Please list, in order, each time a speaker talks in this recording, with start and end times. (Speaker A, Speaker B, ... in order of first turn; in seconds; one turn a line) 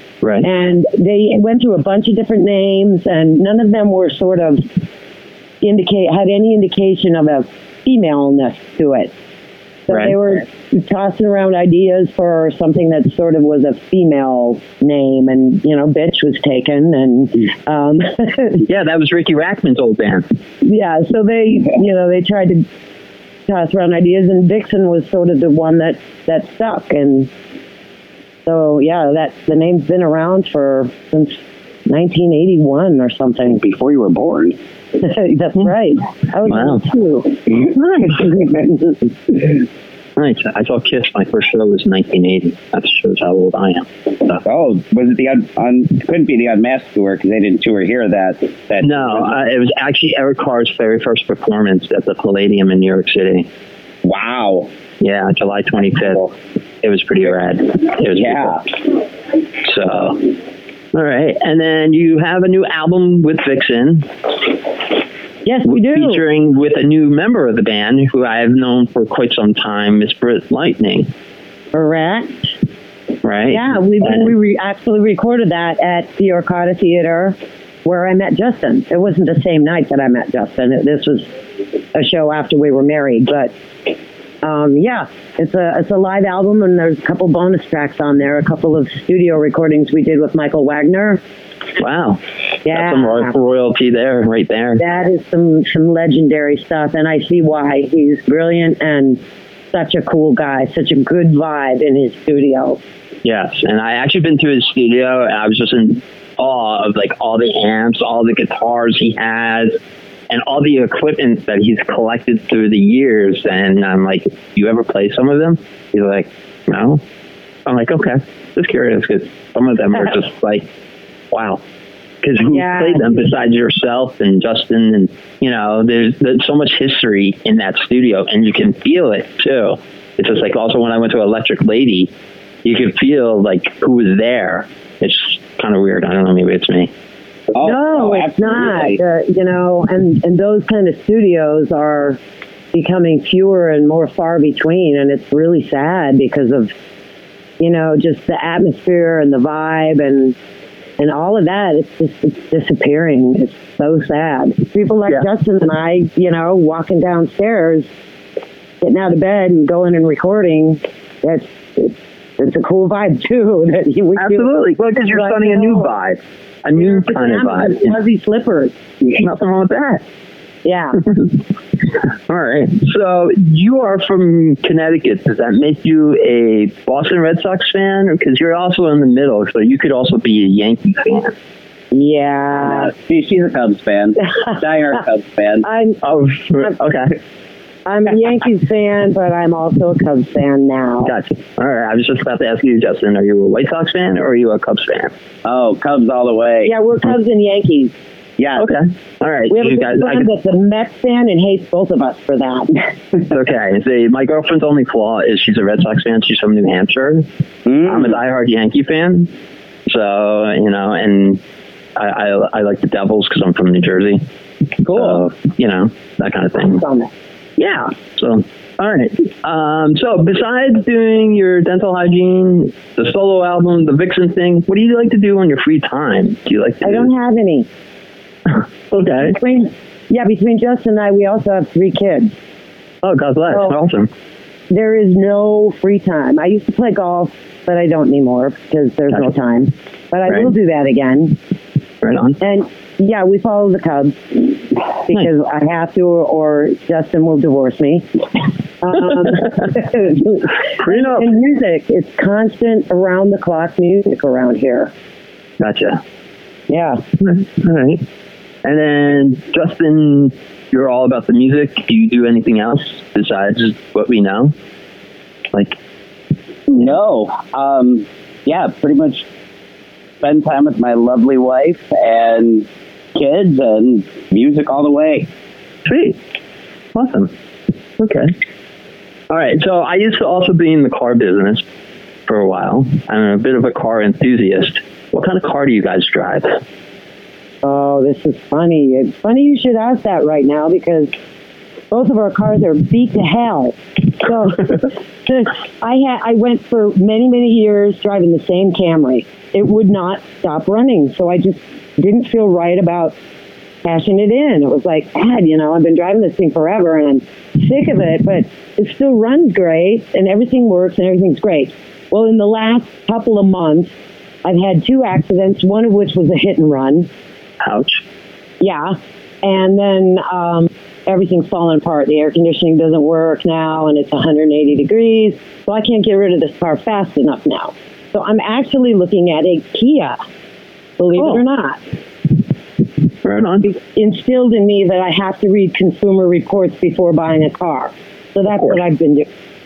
Speaker A: 0.4-4.7
Speaker A: 5.6-9.1
Speaker A: 9.9-18.6
Speaker B: 9.9-10.2
Speaker B: 18.6-20.3
Speaker A: 20.6-22.7
Speaker A: 23.5-27.3
Speaker A: 28.5-33.6
Speaker C: 33.5-34.6
Speaker A: 35.0-39.0
Speaker B: 36.5-36.8
Speaker B: 37.7-38.4
Speaker B: 40.2-44.4
Speaker C: 44.4-49.3
Speaker B: 48.8-53.5
Speaker C: 54.0-54.7
Speaker B: 55.0-56.3
Speaker B: 56.8-58.6
Speaker C: 58.0-58.7
Speaker B: 59.6-60.3
Speaker B: 60.9-64.1
Speaker A: 65.5-66.2
Speaker B: 65.7-71.1
Speaker A: 71.7-72.5
Speaker B: 73.2-74.3
Speaker A: 73.5-81.3
Speaker A: 81.9-83.5
Speaker A: 84.4-91.2
Speaker B: 91.8-94.8
Speaker A: 92.7-93.3
Speaker A: 94.8-99.2
Speaker A: 99.7-102.8
Speaker B: 103.2-109.8
Speaker B: 110.3-117.0
Speaker B: 117.7-120.7
Speaker B: 121.3-121.6
Speaker B: 122.2-132.1
Speaker A: 122.5-123.3
Speaker B: 132.6-136.9
Speaker C: 137.5-139.0
Speaker A: 137.6-142.2
Speaker A: 142.7-146.7
Speaker A: 147.6-150.3
Speaker A: 151.0-157.9
Speaker A: 158.8-164.6
Speaker B: 164.2-168.0
Speaker A: 165.1-165.9
Speaker A: 166.8-168.7
Speaker B: 169.2-170.0
Speaker A: 170.7-171.0
Speaker B: 171.0-171.4
Speaker B: 171.9-181.3
Speaker A: 181.9-182.9
Speaker C: 182.6-185.7
Speaker A: 185.6-186.0
Speaker B: 186.0-187.1
Speaker A: 187.9-191.1
Speaker B: 191.0-195.1
Speaker C: 195.4-196.7
Speaker A: 196.6-197.9
Speaker C: 198.4-198.7
Speaker B: 198.6-200.3
Speaker A: 199.5-202.9
Speaker B: 203.3-207.3
Speaker C: 207.7-208.1
Speaker B: 207.8-209.3
Speaker B: 209.9-211.4
Speaker B: 212.0-214.2
Speaker B: 214.9-216.8
Speaker C: 214.9-215.2
Speaker A: 216.8-217.1
Speaker B: 217.6-227.1
Speaker A: 226.8-227.7
Speaker B: 228.5-229.4
Speaker A: 229.2-232.3
Speaker B: 233.0-234.1
Speaker A: 233.5-233.8
Speaker A: 234.7-241.4
Speaker B: 242.0-242.4
Speaker A: 242.4-248.1
Speaker A: 248.8-254.9
Speaker B: 250.8-251.3
Speaker B: 255.6-256.0
Speaker A: 256.7-257.0
Speaker B: 257.2-258.0
Speaker B: 258.6-264.5
Speaker B: 265.5-265.8
Speaker C: 266.7-269.3
Speaker C: 270.2-275.3
Speaker B: 275.9-276.2
Speaker B: 276.9-277.3
Speaker B: 278.0-278.3
Speaker B: 279.3-281.6
Speaker B: 282.3-286.6
Speaker A: 287.6-291.1
Speaker A: 291.9-303.1
Speaker A: 303.8-313.9
Speaker A: 314.4-317.1
Speaker B: 317.6-318.0
Speaker A: 318.6-330.2
Speaker A: 331.0-331.8
Speaker B: 331.1-331.4
Speaker B: 333.2-333.7
Speaker A: 333.7-339.3
Speaker B: 338.5-338.8